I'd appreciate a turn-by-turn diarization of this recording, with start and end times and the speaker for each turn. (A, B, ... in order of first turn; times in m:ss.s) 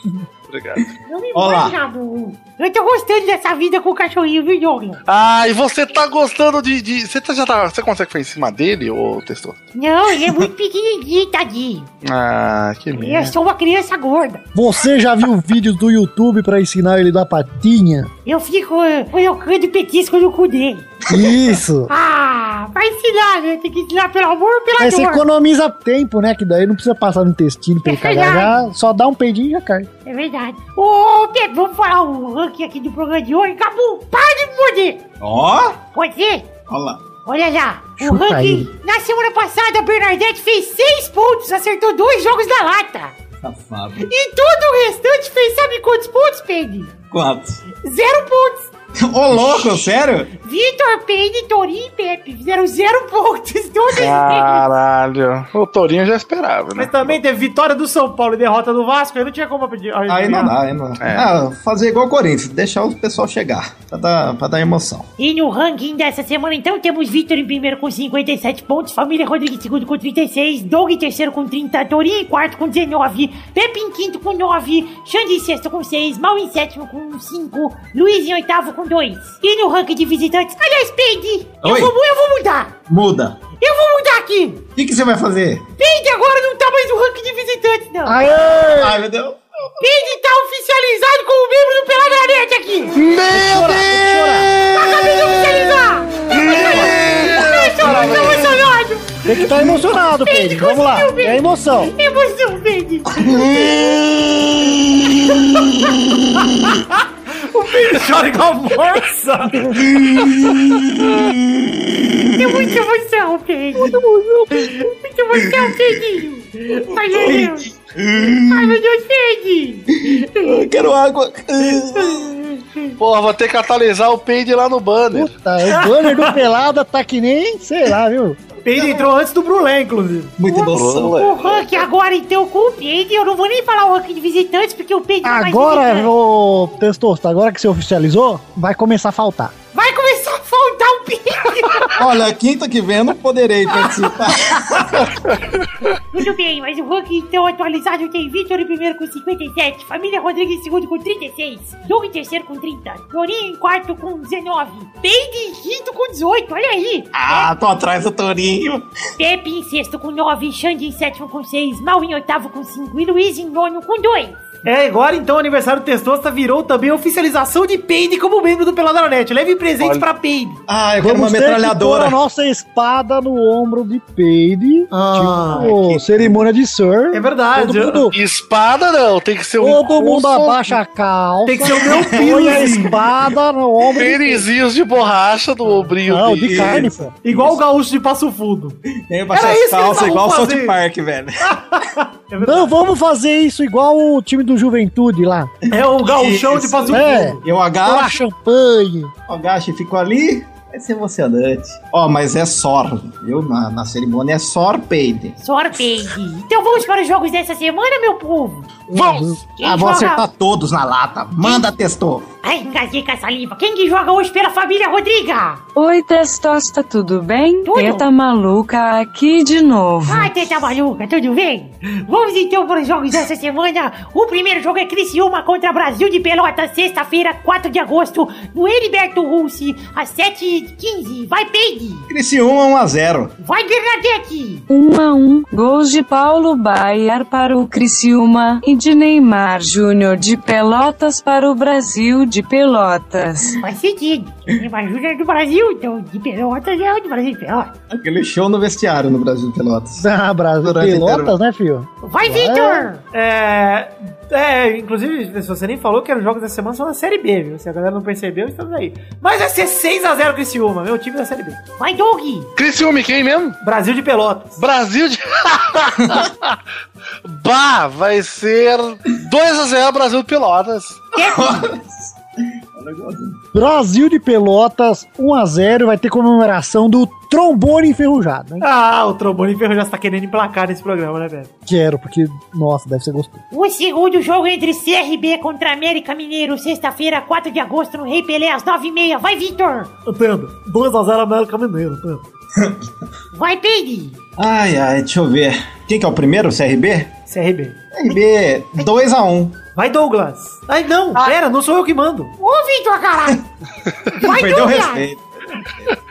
0:00.5-0:00.9 A
0:01.1-0:05.0 B
0:01.3-0:01.8 C
0:05.0-0:09.6 A
0:09.7-0:11.9 B
0:12.0-0:13.3 A
0:12.9-0:14.4 B
0:14.5-0:18.1 D
0:18.2-0:21.0 B
0:21.1-0:21.9 D
0:21.9-0:25.2 B
0:24.8-0:29.9 D
0:27.8-0:28.6 B
0:30.0-0:35.0 B
0:35.2-0:35.8 C
0:35.9-0:36.5 B
0:36.7-0:37.0 C
0:37.2-0:43.1 B
0:38.0-0:38.7 D
0:43.4-0:44.1 C
0:44.0-0:46.9 B
0:47.1-0:47.6 C
0:47.8-0:48.7 B
0:49.0-0:50.3 C
0:50.4-0:54.7 B
0:53.9-0:57.2 A
0:56.8-1:00.6 E
1:00.1-1:05.1 C
1:01.0-1:01.3 A
1:05.2-1:22.7 B
1:21.6-1:21.9 C
1:22.9-1:23.4 C
1:23.6-1:24.6 B
1:24.8-1:25.6 C
1:25.8-1:28.2 B
1:28.0-1:29.0 D
1:28.8-1:29.4 C
1:29.8-1:33.0 B
1:33.0-1:34.7 A
1:33.3-1:34.5 D
1:34.7-1:39.2 B
1:36.2-1:38.6 A
1:39.2-1:41.9 D
1:40.1-1:43.8 B
1:43.1-1:45.4 C
1:46.7-1:49.8 E
1:49.9-1:52.5 C
1:52.3-1:54.0 B
1:53.8-1:54.6 D
1:54.6-1:59.8 B
1:56.9-1:58.8 C
1:59.9-2:02.4 C
2:02.6-2:02.9 B
2:03.0-2:05.3 A
2:05.1-2:08.4 D
2:05.6-2:06.4 E
2:08.6-2:10.4 E
2:10.4-2:11.3 C
2:10.5-2:16.1 B
2:10.6-2:11.8 A
2:15.2-2:19.5 D
2:19.7-2:22.0 B
2:21.9-2:25.2 C
2:26.1-2:37.5 B
2:37.1-2:38.9 C
2:39.2-2:44.4 B
2:44.6-2:50.6 E
2:50.7-2:52.2 C
2:51.0-2:58.1 D
2:54.9-2:55.7 E
2:55.6-2:56.3 C
2:57.1-2:58.1 E
2:58.1-3:00.8 A
2:59.6-3:04.4 D
3:01.5-3:03.0 E
3:01.8-3:02.5 C
3:03.9-3:06.8 A
3:06.1-3:07.1 D
3:06.4-3:07.5 C
3:07.2-3:08.8 E
3:09.1-3:11.8 C
3:09.3-3:10.8 E
3:11.5-3:12.8 E
3:12.4-3:15.5 D
3:15.7-3:18.2 C
3:15.7-3:17.4 E
3:16.9-3:19.1 D
3:19.3-3:25.4 C
3:25.4-3:30.3 B
3:28.9-3:32.2 C
3:32.4-3:35.6 B
3:35.8-3:40.3 F
3:37.6-3:38.0 B
3:40.0-3:52.1 B
3:52.1-3:53.3 C
3:53.4-3:54.6 B
3:54.7-4:03.6 F
4:03.6-4:07.7 B
4:07.9-4:10.0 C
4:10.0-4:12.9 D
4:10.6-4:11.3 C
4:12.0-4:13.0 B
4:13.1-4:21.6 E
4:21.8-4:22.5 B
4:22.6-4:23.6 A
4:23.6-4:24.6 E
4:24.6-4:26.6 A
4:27.2-4:31.1 A
4:31.1-4:31.7 B
4:31.2-4:32.1 C
4:32.7-4:33.4 C
4:33.5-4:38.6 D
4:38.6-4:41.5 E
4:41.7-4:43.4 D
4:43.5-4:49.9 B
4:50.0-4:52.2 E
4:53.3-4:54.2 B
4:54.4-4:57.1 C
4:57.3-4:57.8 E
4:57.9-4:59.6 C
4:59.7-5:02.3 E
5:02.4-5:03.4 B
5:04.2-5:05.1 B
5:04.2-5:05.2 C